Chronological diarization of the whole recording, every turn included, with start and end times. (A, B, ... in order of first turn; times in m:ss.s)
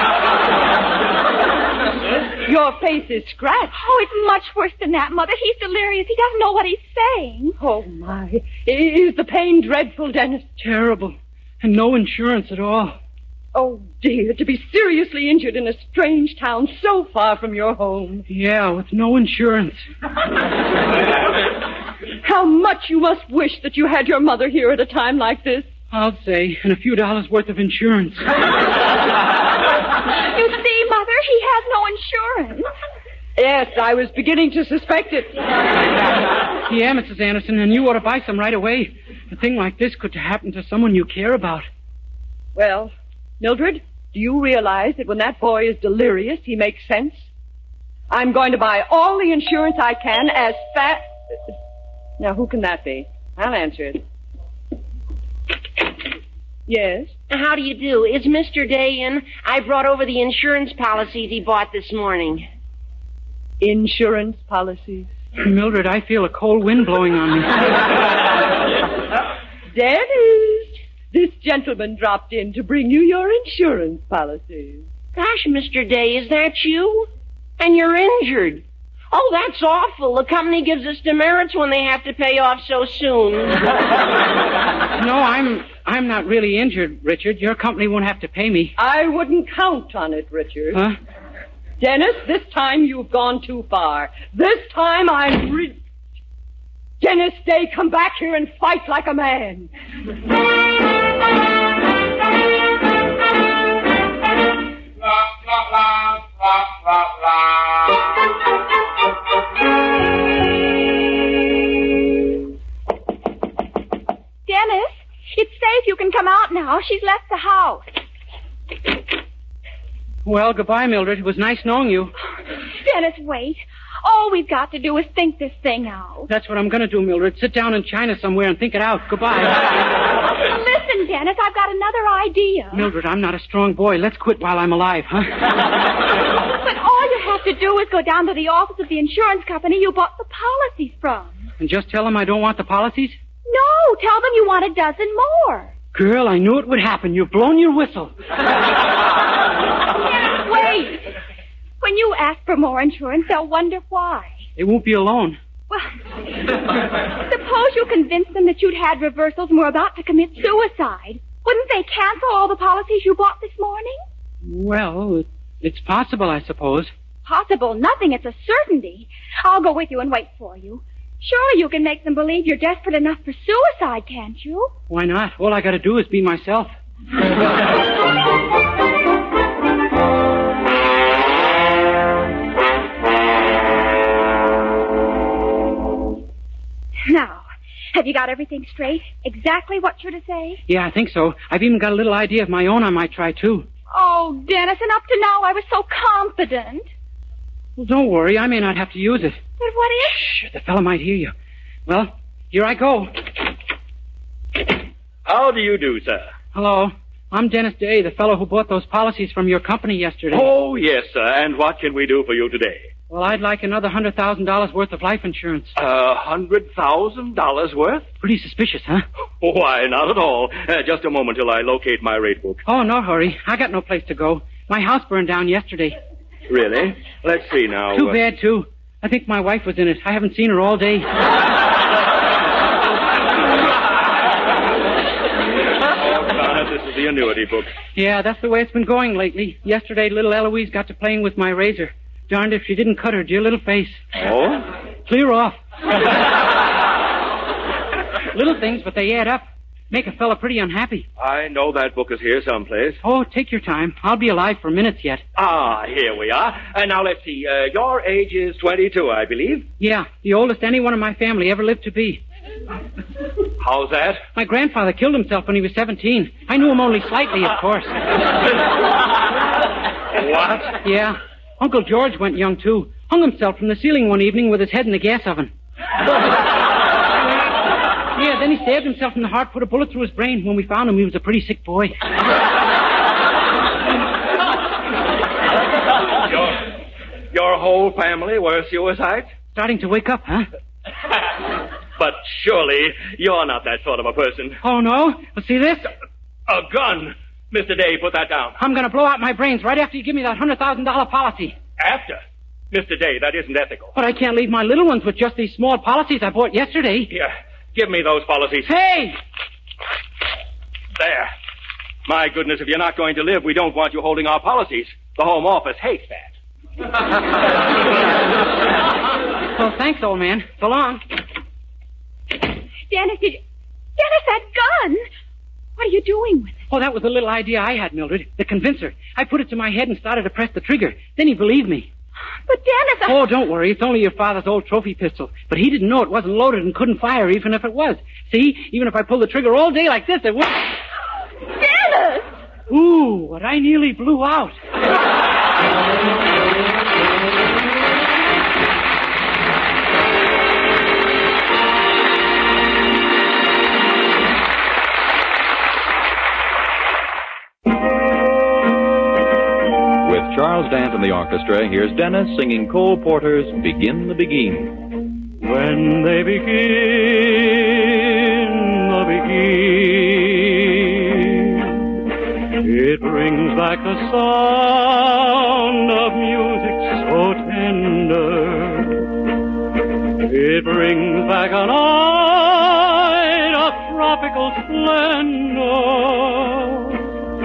0:02.4-0:03.7 A
0:03.7-0:07.6 B
0:07.6-0:10.4 A
0:10.6-0:13.0 C
0:13.5-0:18.2 A
0:18.3-0:19.8 C
0:22.2-0:25.7 A
0:25.9-0:28.2 C
0:30.2-0:32.7 B
0:33.4-0:35.4 A
0:36.7-0:41.7 C
0:42.5-0:47.2 A
0:48.1-0:51.1 A
0:52.2-0:54.0 A
0:56.7-0:57.1 A
0:57.3-1:02.4 D
1:03.6-1:05.1 A
1:05.4-1:07.6 C
1:09.7-1:14.8 A
1:15.1-1:17.1 D
1:17.6-1:23.6 D
1:25.0-1:28.8 C
1:28.8-1:30.8 A
1:31.8-1:35.8 A
1:37.0-1:39.7 A
1:54.5-1:57.8 B
2:00.2-2:02.1 C
2:02.8-2:06.3 B
2:06.3-2:09.7 C
2:10.4-2:12.9 B
2:12.7-2:15.3 C
2:16.6-2:21.4 B
2:21.6-2:23.2 C
2:23.4-2:25.7 B
2:25.9-2:28.1 C
2:30.0-2:31.1 B
2:31.8-2:34.3 B
2:34.6-2:35.4 C
2:35.7-2:35.9 B
2:36.5-2:44.0 B
2:44.4-2:46.9 C
2:47.2-2:54.7 B
2:54.9-2:56.7 C
3:07.1-3:10.6 B
3:10.7-3:13.7 C
3:13.9-3:16.9 B
3:17.8-3:19.4 C
3:19.6-3:20.3 B
3:20.2-3:21.3 C
3:21.9-3:23.1 C
3:25.2-3:26.3 E
3:26.5-3:30.5 C
3:30.3-3:32.8 E
3:33.1-3:35.7 C
3:35.8-3:38.1 E
3:38.2-3:39.0 C
3:39.4-3:42.6 E
3:42.6-3:46.0 C
3:46.5-3:48.2 E
3:47.9-3:51.1 C
3:55.9-3:57.7 E
3:57.9-4:04.0 C
4:04.2-4:04.6 E
4:05.0-4:05.6 C
4:08.3-4:11.1 C
4:11.2-4:13.0 E
4:13.0-4:15.2 C
4:15.4-4:19.6 E
4:19.8-4:22.2 C
4:23.6-4:24.2 E
4:24.3-4:28.0 C
4:30.2-4:30.7 E
4:30.8-4:35.5 C
4:38.1-4:41.9 C
4:46.3-4:46.6 E
4:47.3-4:49.3 E
4:49.5-4:50.5 C
4:52.0-4:54.6 E
4:54.6-4:55.9 C
4:56.5-4:58.5 E
4:58.6-5:01.5 C
5:01.8-5:02.2 E
5:02.7-5:03.9 E
5:03.9-5:07.1 C
5:07.1-5:08.7 E
5:08.6-5:09.2 C
5:11.0-5:11.3 E
5:12.0-5:16.3 E
5:19.5-5:21.0 C
5:22.9-5:23.4 B
5:24.0-5:25.0 B
5:25.8-5:26.6 B
5:26.7-5:31.9 C
5:32.5-5:33.2 B
5:33.0-5:40.7 C
5:41.5-5:42.3 B
5:42.7-5:44.6 C
6:00.0-6:04.8 F
6:05.4-6:11.7 G
6:12.6-6:19.1 G
6:20.2-6:27.0 G